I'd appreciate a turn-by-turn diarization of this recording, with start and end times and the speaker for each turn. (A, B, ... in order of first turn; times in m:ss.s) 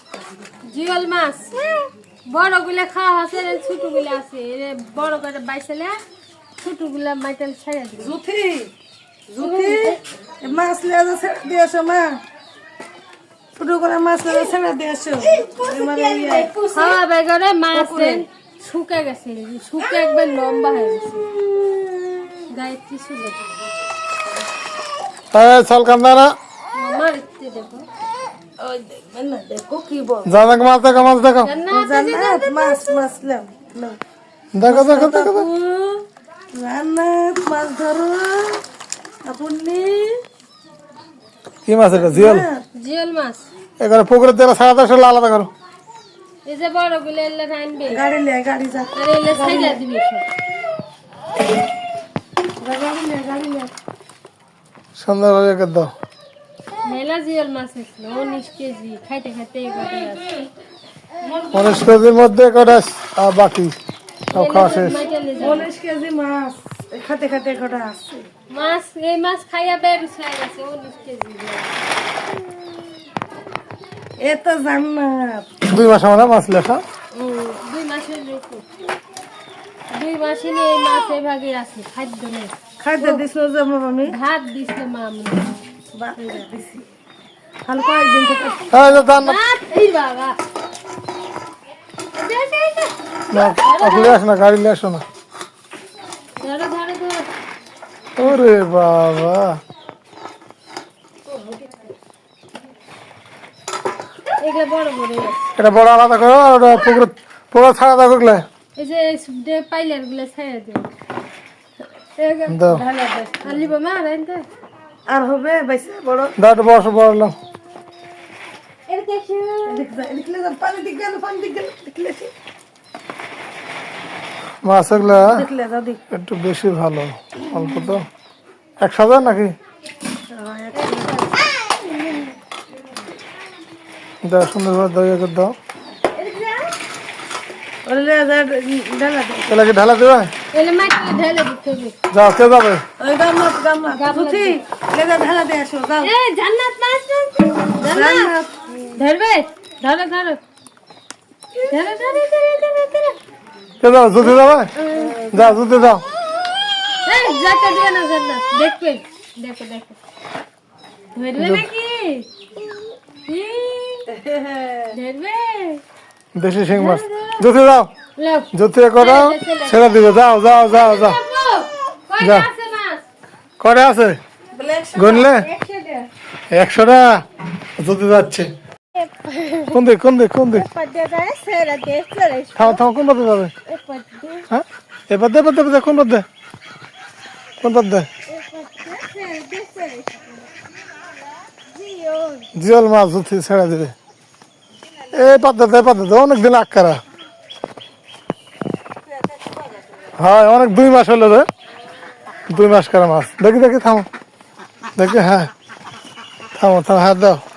0:00.7-0:06.0 A
0:06.6-0:08.2 A
0:08.0-0:08.7 B
0:09.3-0:12.2 B
0:09.4-0:10.0 A
0:13.6-0:17.0 B
0:15.6-0:21.3 A
0:17.7-0:18.2 B
0:21.3-0:22.4 B
0:22.5-0:23.4 A
0:25.3-0:26.4 C
0:26.7-0:27.9 A
0:28.6-0:30.4 B
0:30.2-0:31.5 C
0:31.4-0:33.0 A
0:31.7-0:34.0 B
0:34.5-0:35.5 C
0:34.6-0:38.6 B
0:39.2-0:40.2 B
0:41.7-0:42.5 C
0:41.9-0:42.6 B
0:42.8-0:43.4 A
0:43.8-0:45.5 C
0:46.4-0:48.0 A
0:47.9-0:49.8 B
0:48.9-0:50.3 A
0:52.6-0:53.7 B
0:55.0-0:55.9 C
0:56.8-1:00.3 A
1:01.2-1:02.0 B
1:01.5-1:03.8 C
1:04.3-1:05.7 A
1:04.3-1:05.0 C
1:05.4-1:08.3 B
1:08.5-1:11.7 A
1:14.2-1:15.5 B
1:15.6-1:16.8 C
1:17.1-1:18.6 A
1:19.9-1:23.2 A
1:22.8-1:24.2 B
1:24.1-1:25.5 A
1:25.9-1:26.9 B
1:27.7-1:28.8 B
1:28.7-1:29.4 C
1:29.0-1:30.4 A
1:32.2-1:34.2 A
1:33.3-1:35.0 C
1:36.4-1:37.3 A
1:38.2-1:39.6 C
1:44.4-1:45.4 A
1:45.6-1:48.4 C
1:48.8-1:50.9 A
1:52.2-1:52.7 A
1:52.5-1:52.8 C
1:52.6-1:53.7 B
1:53.4-1:54.5 A
1:55.1-1:56.4 B
1:56.4-1:57.3 C
1:58.9-1:59.9 A
1:59.7-2:02.3 B
2:04.6-2:05.4 C
2:05.0-2:06.0 B
2:06.1-2:08.1 C
2:07.5-2:07.9 B
2:08.8-2:09.6 C
2:10.3-2:11.3 B
2:10.7-2:11.5 A
2:14.2-2:15.5 C
2:16.2-2:16.7 A
2:17.8-2:19.6 B
2:19.5-2:20.3 C
2:20.5-2:22.0 A
2:22.1-2:22.8 C
2:23.0-2:26.1 B
2:23.9-2:24.6 A
2:26.0-2:28.3 A
2:27.8-2:28.7 B
2:29.0-2:30.4 A
2:31.7-2:33.2 A
2:33.8-2:34.7 C
2:34.8-2:35.1 A
2:34.9-2:35.6 B
2:35.3-2:36.0 C
2:37.0-2:40.0 A
2:41.2-2:42.3 A
2:41.4-2:41.7 C
2:43.3-2:44.1 A
2:44.1-2:45.0 B
2:44.9-2:45.8 A
2:46.3-2:47.9 C
2:46.7-2:47.5 A
2:48.2-2:53.0 A
2:48.5-2:51.2 C
2:52.2-2:52.5 C
2:53.6-2:54.2 C
2:54.5-2:55.3 B
2:55.0-2:55.5 C
2:55.3-2:56.1 A
2:56.5-2:57.2 C
2:57.8-2:58.5 C
2:59.0-2:59.8 A
2:59.7-3:00.7 C
3:00.5-3:02.8 A
3:02.6-3:03.5 C
3:03.7-3:04.4 A
3:04.5-3:06.2 C
3:07.6-3:08.1 C
3:08.3-3:10.5 A
3:11.8-3:12.4 A
3:12.5-3:14.0 C
3:15.1-3:17.0 C
3:20.2-3:21.5 C
3:22.5-3:24.1 C
3:25.0-3:25.5 C
3:26.5-3:27.4 C